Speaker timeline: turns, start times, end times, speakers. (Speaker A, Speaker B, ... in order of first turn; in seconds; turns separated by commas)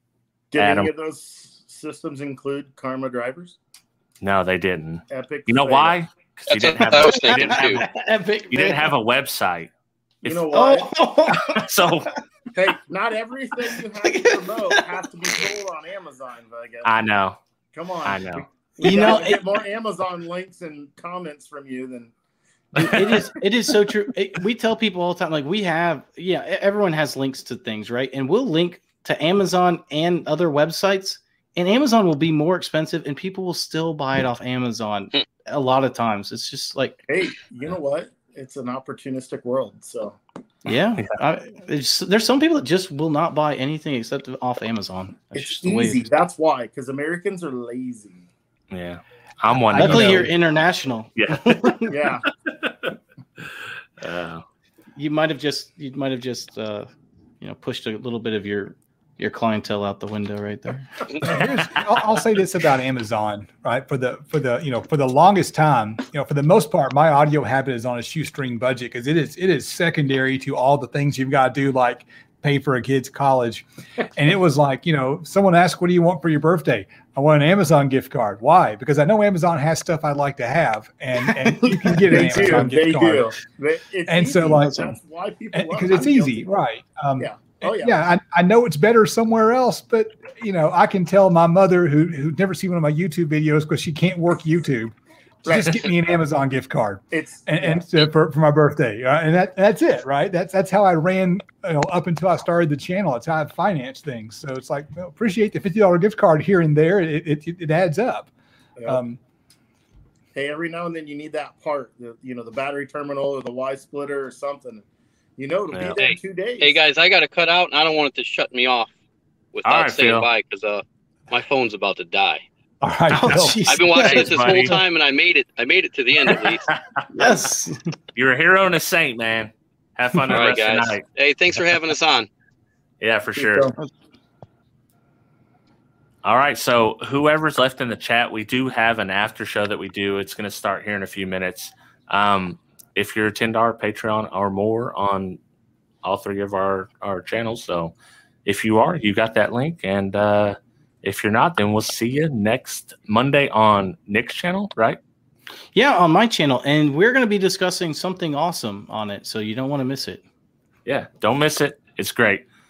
Speaker A: 0.5-3.6, Speaker B: 0.6-0.9, Speaker B: 4.2-7.8, Speaker A: 5.1-6.0, Speaker C: 6.5-7.8, Speaker D: 6.8-8.9, Speaker B: 8.5-9.7, Speaker A: 10.2-10.9, Speaker D: 10.5-11.7, Speaker B: 11.3-12.1, Speaker A: 12.5-16.9, Speaker D: 14.0-14.8, Speaker B: 16.8-17.4, Speaker A: 17.7-22.1, Speaker B: 18.1-18.4, Speaker D: 18.8-19.5, Speaker D: 22.7-37.0, Speaker B: 22.8-23.2, Speaker A: 37.1-40.2, Speaker D: 40.6-46.1, Speaker A: 45.3-48.2, Speaker B: 48.7-50.3, Speaker E: 49.7-50.3, Speaker D: 49.7-51.9, Speaker B: 51.2-51.9, Speaker A: 51.9-52.2, Speaker B: 52.5-54.4, Speaker D: 55.0-56.9, Speaker D: 57.4-61.0, Speaker C: 61.1-61.4, Speaker E: 61.2-83.3, Speaker D: 81.2-82.7, Speaker A: 82.1-86.5, Speaker E: 84.1-85.0, Speaker E: 85.5-108.3, Speaker A: 87.2-88.0, Speaker A: 95.4-95.8, Speaker A: 97.1-97.8, Speaker E: 108.9-109.2, Speaker A: 110.3-114.8, Speaker A: 115.4-116.8, Speaker B: 115.7-116.0, Speaker C: 116.0-118.9, Speaker C: 119.5-122.4, Speaker B: 119.6-120.3, Speaker E: 122.8-123.6, Speaker D: 123.1-124.8, Speaker C: 123.7-126.7, Speaker B: 124.0-124.7, Speaker B: 126.7-127.0, Speaker D: 127.1-127.9, Speaker B: 128.1-131.0, Speaker C: 130.3-132.3, Speaker B: 133.0-133.7, Speaker A: 133.3-133.7, Speaker B: 136.2-145.4, Speaker B: 146.0-147.9, Speaker B: 148.4-155.0, Speaker D: 155.7-160.2, Speaker B: 160.8-162.4